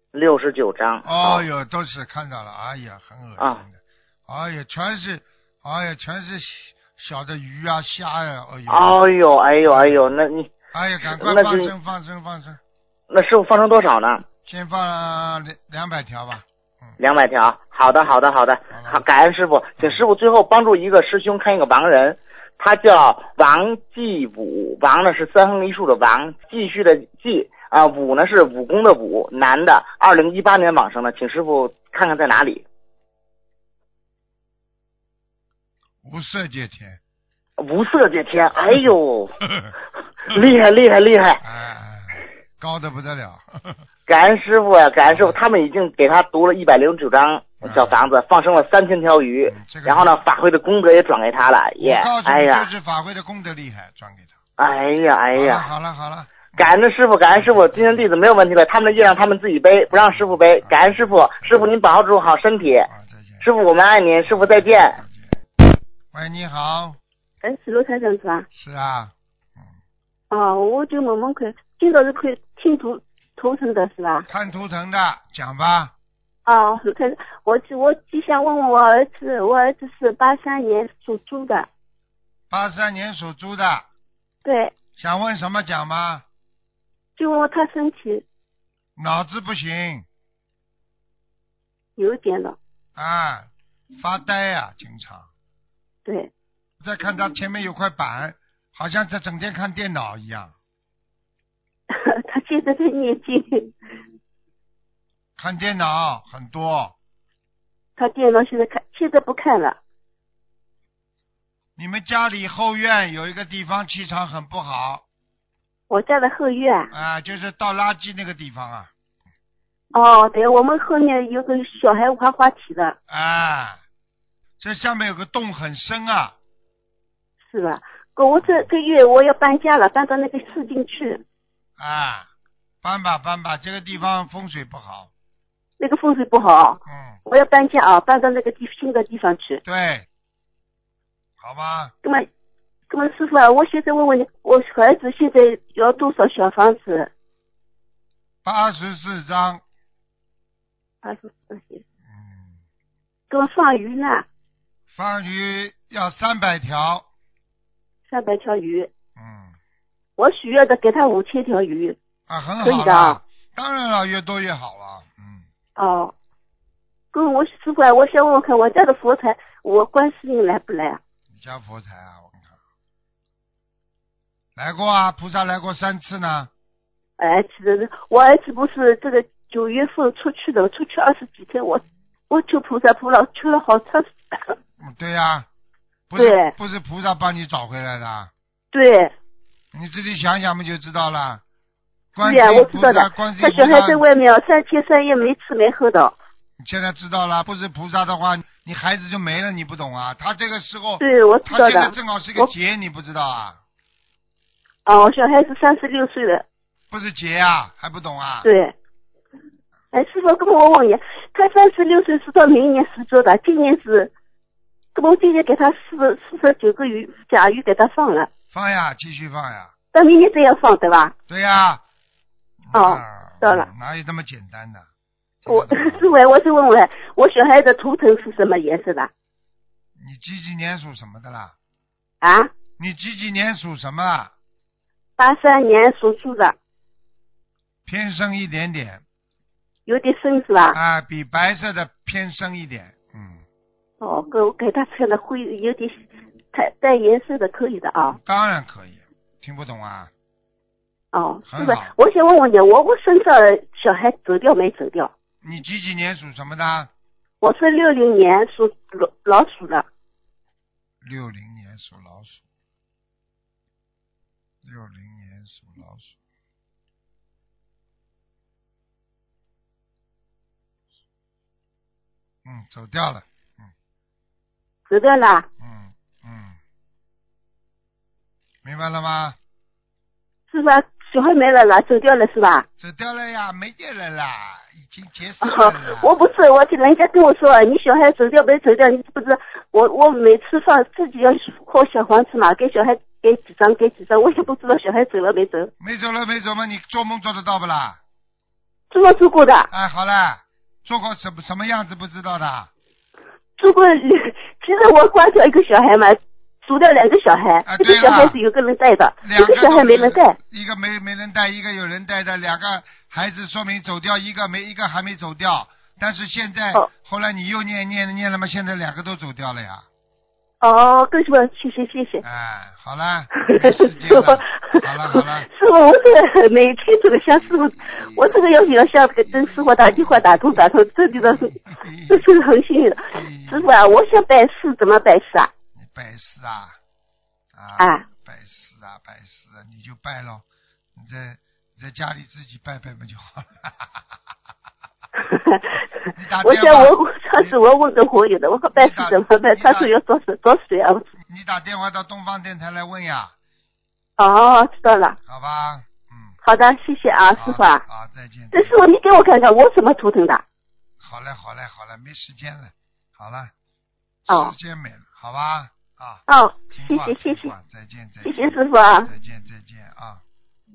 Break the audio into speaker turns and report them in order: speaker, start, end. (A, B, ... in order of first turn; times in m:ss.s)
0:00.1-0:01.4 A
0:01.0-0:09.0 B
0:08.7-0:10.5 A
0:09.7-0:10.1 B
0:10.7-0:12.6 B
0:11.1-0:11.7 A
0:13.1-0:14.3 A
0:14.4-0:17.0 B
0:17.0-0:32.6 A
0:18.7-0:19.0 B
0:19.8-0:20.0 B
0:36.0-0:37.0 B
0:37.6-0:39.4 A
0:39.5-0:39.7 B
0:40.2-0:41.4 A
0:41.4-0:43.8 B
0:44.1-0:52.7 A
0:45.1-0:45.4 B
0:47.6-0:48.1 B
0:49.5-0:50.2 B
0:51.8-0:54.4 B
0:54.6-0:55.7 A
0:55.3-0:56.7 B
0:56.6-1:02.9 A
0:57.4-0:58.0 B
0:59.9-1:01.7 B
1:02.9-1:03.5 B
1:03.4-1:05.0 A
1:04.2-1:05.4 B
1:06.1-1:07.0 B
1:07.4-1:08.5 C
1:08.5-1:09.7 B
1:10.3-1:14.3 C
1:14.3-1:15.9 B
1:16.4-1:21.7 C
1:22.5-1:23.9 B
1:24.4-1:24.7 C
1:25.0-1:26.2 B
1:27.2-1:28.2 C
1:29.0-1:30.1 B
1:32.0-1:32.6 C
1:33.0-1:35.3 B
1:36.0-1:36.3 C
1:36.8-1:40.5 B
1:41.9-1:43.8 C
1:45.4-1:47.0 B
1:48.0-1:49.8 C
1:51.8-1:55.0 B
1:55.9-1:56.9 C
1:56.9-1:58.9 B
1:59.9-2:03.0 C
2:03.1-2:03.8 B
2:04.6-2:06.4 B
2:07.4-2:11.2 C
2:08.4-2:08.7 B
2:11.8-2:12.3 B
2:12.8-2:15.1 B
2:15.8-2:19.6 C
2:16.9-2:17.2 B
2:19.6-2:20.1 B
2:21.4-2:21.9 B
2:22.9-2:27.1 C
2:28.4-2:29.6 B
2:31.0-2:31.8 C
2:32.1-2:32.6 B
2:33.3-2:34.3 C
2:34.9-2:37.1 B
2:38.1-2:38.9 C
2:39.2-2:39.6 B
2:40.2-2:42.0 C
2:42.3-2:45.5 B
2:42.6-2:43.2 C
2:45.8-2:46.1 C
2:47.1-2:51.0 C
2:51.3-2:52.6 B
2:54.6-2:56.5 B
2:57.2-3:04.6 C
3:04.8-3:05.5 B
3:06.1-3:08.3 B
3:06.2-3:06.5 C
3:08.7-3:09.1 C
3:09.7-3:11.4 B
3:12.2-3:14.0 B
3:12.2-3:16.2 C
3:16.6-3:23.6 B
3:21.0-3:22.5 C
3:24.9-3:26.4 C
3:26.9-3:28.5 B
3:28.4-3:28.8 C
3:29.9-3:34.1 C
3:35.0-3:38.3 C
3:38.5-3:39.7 B
3:39.9-3:41.2 C
3:41.3-3:41.8 B
3:42.7-3:44.9 B
3:42.7-3:43.7 C
3:45.4-3:46.0 B
3:45.5-3:49.1 C
3:50.0-3:51.5 B
3:52.2-3:52.5 C
3:52.8-3:54.3 B
3:55.2-3:56.6 C
3:57.9-3:59.0 B
3:59.9-4:00.8 C
4:00.7-4:03.4 B
4:04.0-4:08.2 C
4:08.1-4:10.1 B
4:11.1-4:15.1 C
4:11.5-4:11.9 B
4:15.4-4:16.9 B
4:17.4-4:19.9 C
4:21.0-4:22.4 B
4:24.6-4:26.2 B
4:32.4-4:33.7 B
4:34.9-4:35.5 C
4:35.6-4:36.6 B
4:38.6-4:39.4 B
4:40.5-4:42.7 C
4:42.8-4:46.2 B
4:45.4-4:55.7 C
4:55.8-4:58.0 B
4:58.9-4:59.7 C
4:59.7-5:02.7 B
5:03.6-5:10.4 C
5:07.6-5:08.4 B
5:09.2-5:19.9 B
5:20.6-5:22.2 C
5:22.2-5:25.5 B
5:23.4-5:31.6 C
5:28.0-5:28.4 B
5:29.3-5:32.3 B
5:32.1-5:35.5 C
5:33.1-5:33.7 B
5:35.8-5:36.8 B
5:37.5-5:40.4 B
5:37.8-5:38.0 C
5:41.0-5:44.0 B
5:45.2-5:45.8 C
5:46.1-5:47.6 B
5:46.4-5:51.1 C
5:48.7-5:49.9 B
5:51.3-5:53.3 B
5:54.2-5:55.2 C
5:55.3-5:56.4 B
5:56.4-5:57.8 C
5:57.4-5:58.8 B
5:58.5-6:00.4 C
6:01.0-6:03.5 B
6:04.3-6:06.2 B
6:04.3-6:04.5 C
6:06.3-6:07.5 C
6:06.7-6:10.2 B
6:08.2-6:09.1 C